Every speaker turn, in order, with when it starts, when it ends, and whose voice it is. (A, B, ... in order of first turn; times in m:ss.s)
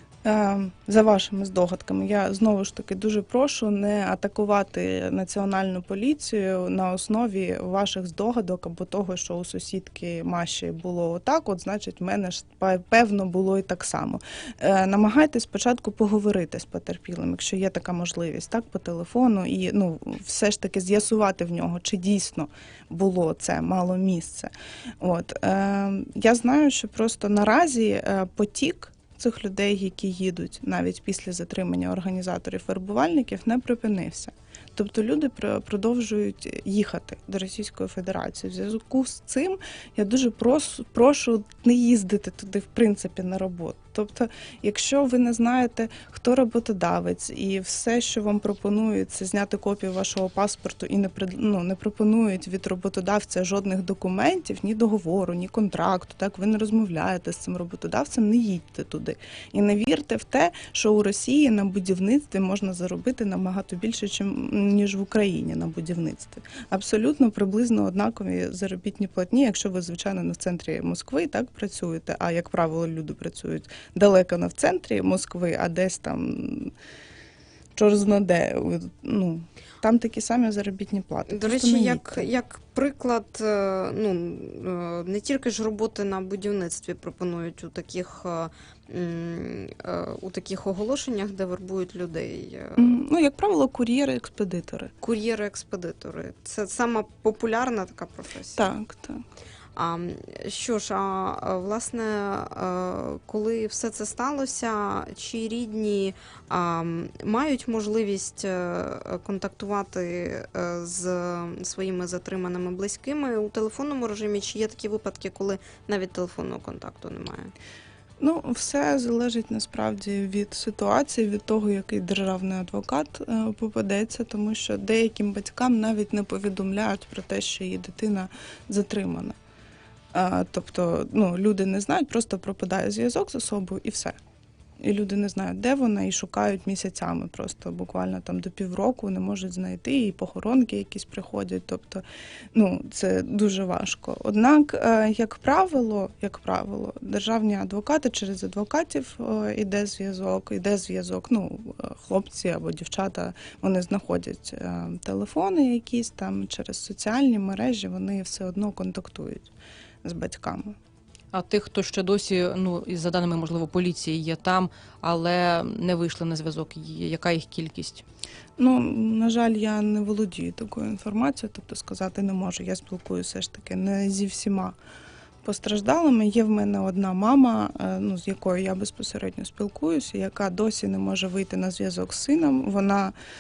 0:00.2-1:16.7 A
1:17.8-1:22.3 A
1:21.3-1:33.0 B
1:32.8-1:34.9 A
1:35.0-1:38.7 B
1:38.6-1:39.2 A
1:39.8-1:57.5 B
1:58.2-2:09.4 A
2:10.1-2:14.2 A
2:14.8-2:39.5 A
2:40.0-2:40.8 A
2:41.3-2:48.0 C
2:48.6-2:54.8 A
2:55.4-3:03.1 A